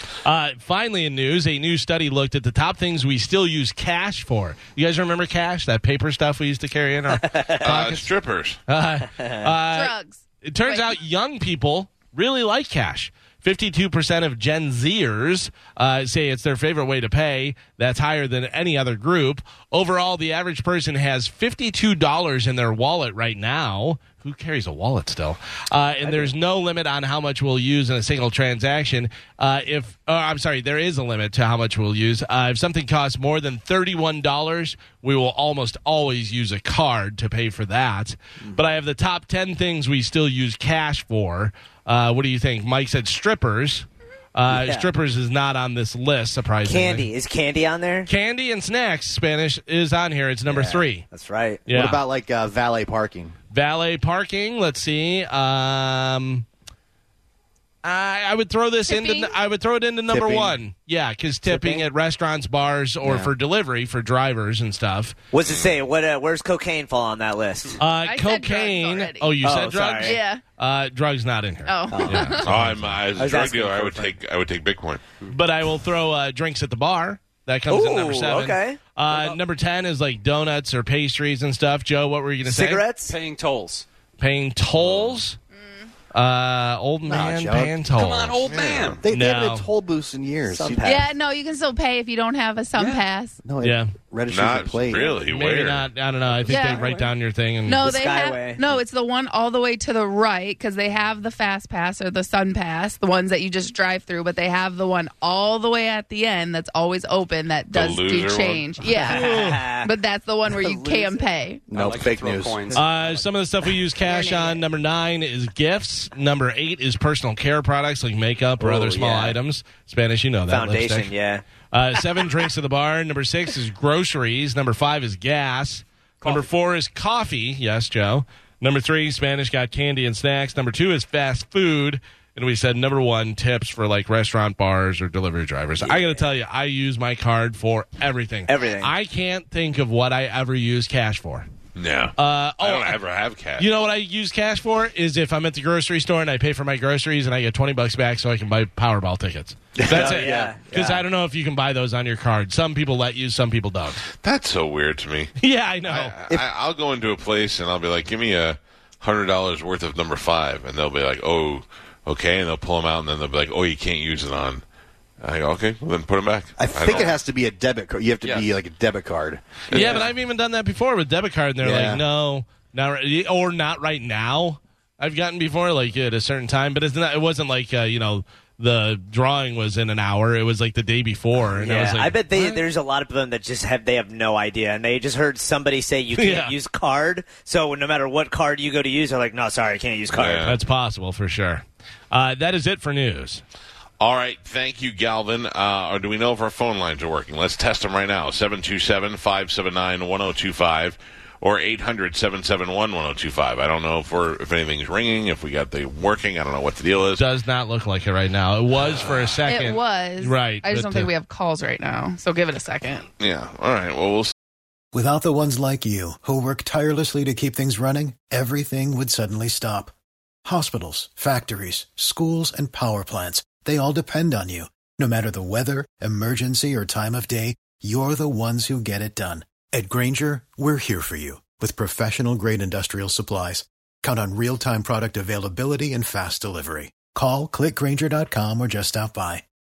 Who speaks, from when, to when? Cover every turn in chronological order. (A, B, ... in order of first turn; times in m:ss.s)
0:00.2-0:08.1 A
0:07.2-0:07.6 B
0:07.6-0:08.6 C
0:08.7-0:47.1 A
0:09.7-0:11.0 D
0:44.5-0:44.9 B
0:46.6-0:48.1 B
0:48.1-0:51.0 A
0:50.5-0:51.6 B
0:51.7-0:52.0 A
0:51.7-0:53.4 E
0:53.5-0:56.4 A
0:57.8-1:05.1 A
0:58.9-0:59.3 D
1:00.1-1:00.6 E
1:01.5-1:01.8 E
1:03.0-1:03.3 E
1:05.3-1:07.8 B
1:05.4-1:05.8 C
1:07.8-1:13.0 A
1:08.0-1:09.3 D
1:09.4-1:10.2 B
1:10.0-1:10.4 D
1:11.6-1:12.6 D
1:11.9-1:12.4 B
1:12.4-1:15.0 C
1:13.1-1:14.2 B
1:15.3-1:22.8 A
1:17.7-1:18.8 B
1:19.1-1:19.4 F
1:22.4-1:23.1 B
1:23.0-1:23.9 F
1:24.2-1:25.4 A
1:24.8-1:25.2 C
1:26.1-1:28.4 A
1:27.1-1:27.7 E
1:27.9-1:29.0 F
1:28.4-1:29.0 C
1:29.0-1:31.0 E
1:29.1-1:29.7 A
1:30.4-1:31.1 B
1:30.8-1:33.4 D
1:32.8-1:33.0 F
1:33.4-1:35.1 E
1:33.6-1:33.9 A
1:34.3-1:35.9 C
1:35.1-1:37.8 A
1:36.4-1:36.9 D
1:36.5-1:37.1 F
1:37.6-1:51.7 D
1:37.8-1:38.8 B
1:47.7-1:48.7 C
1:48.9-1:49.9 B
1:49.0-1:49.6 A
1:50.5-1:51.3 B
1:51.7-1:52.8 E
1:51.7-1:53.3 F
1:52.7-2:01.1 A
1:54.0-1:54.6 D
1:58.6-1:59.4 B
2:00.5-2:01.4 B
2:01.7-2:21.5 A
2:06.2-2:06.5 F
2:18.5-2:18.9 B
2:21.8-2:23.7 C
2:22.2-2:23.0 A
2:23.6-2:34.0 A
2:29.8-2:30.6 E
2:29.9-2:31.0 B
2:34.2-2:35.3 C
2:35.4-2:36.1 A
2:35.9-2:44.6 C
2:45.2-2:47.2 C
2:46.6-2:50.1 E
2:48.2-2:48.5 F
2:49.7-2:50.0 C
2:49.7-3:02.6 A
2:51.6-2:52.0 E
3:01.6-3:10.5 B
3:06.1-3:06.5 A
3:10.1-3:10.6 C
3:10.4-3:13.4 A
3:14.0-3:27.2 C
3:27.2-3:31.1 A
3:28.8-3:29.4 C
3:29.4-3:33.1 D
3:33.2-3:34.3 C
3:34.9-3:39.9 G
3:40.4-3:59.4 G